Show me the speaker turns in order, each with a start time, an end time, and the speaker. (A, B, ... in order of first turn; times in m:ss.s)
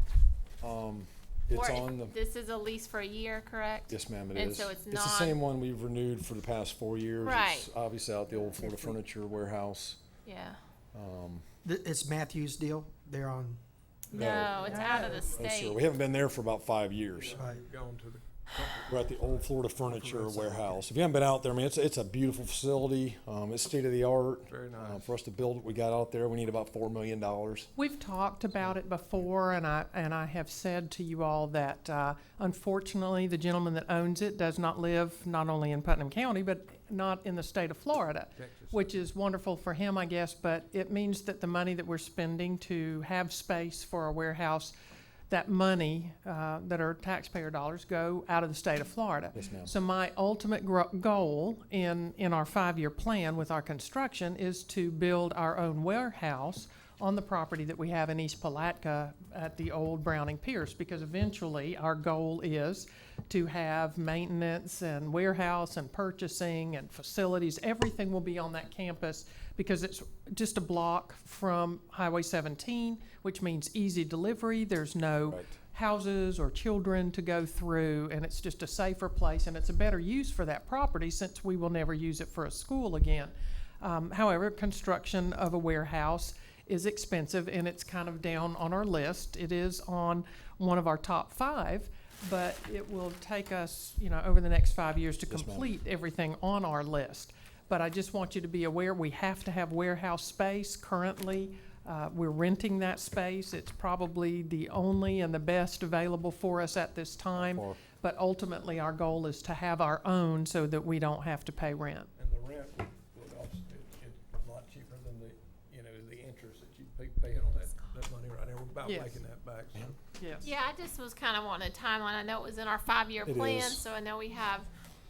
0:00.6-0:02.1 A
0:01.5-0:05.4 B
0:03.9-0:10.0 A
0:07.2-0:07.7 B
0:08.3-0:09.0 C
0:10.2-0:10.6 B
0:10.9-0:11.4 A
0:11.6-0:13.6 C
0:14.1-0:15.8 B
0:14.1-0:14.4 C
0:14.1-0:14.8 A
0:14.4-0:15.4 D
0:15.3-0:17.4 A
0:17.1-0:20.8 D
0:17.3-0:17.6 C
0:18.9-0:27.7 A
0:24.5-0:25.2 D
0:27.8-0:44.7 E
0:38.4-0:38.9 D
0:45.3-1:52.1 E
0:49.3-0:49.7 A
1:15.2-1:15.6 A
1:35.3-1:35.7 A
1:47.3-1:47.8 A
1:52.2-2:00.0 D
1:58.8-1:59.2 E
2:00.2-2:00.5 E
2:00.4-2:04.7 B
2:03.2-2:03.8 A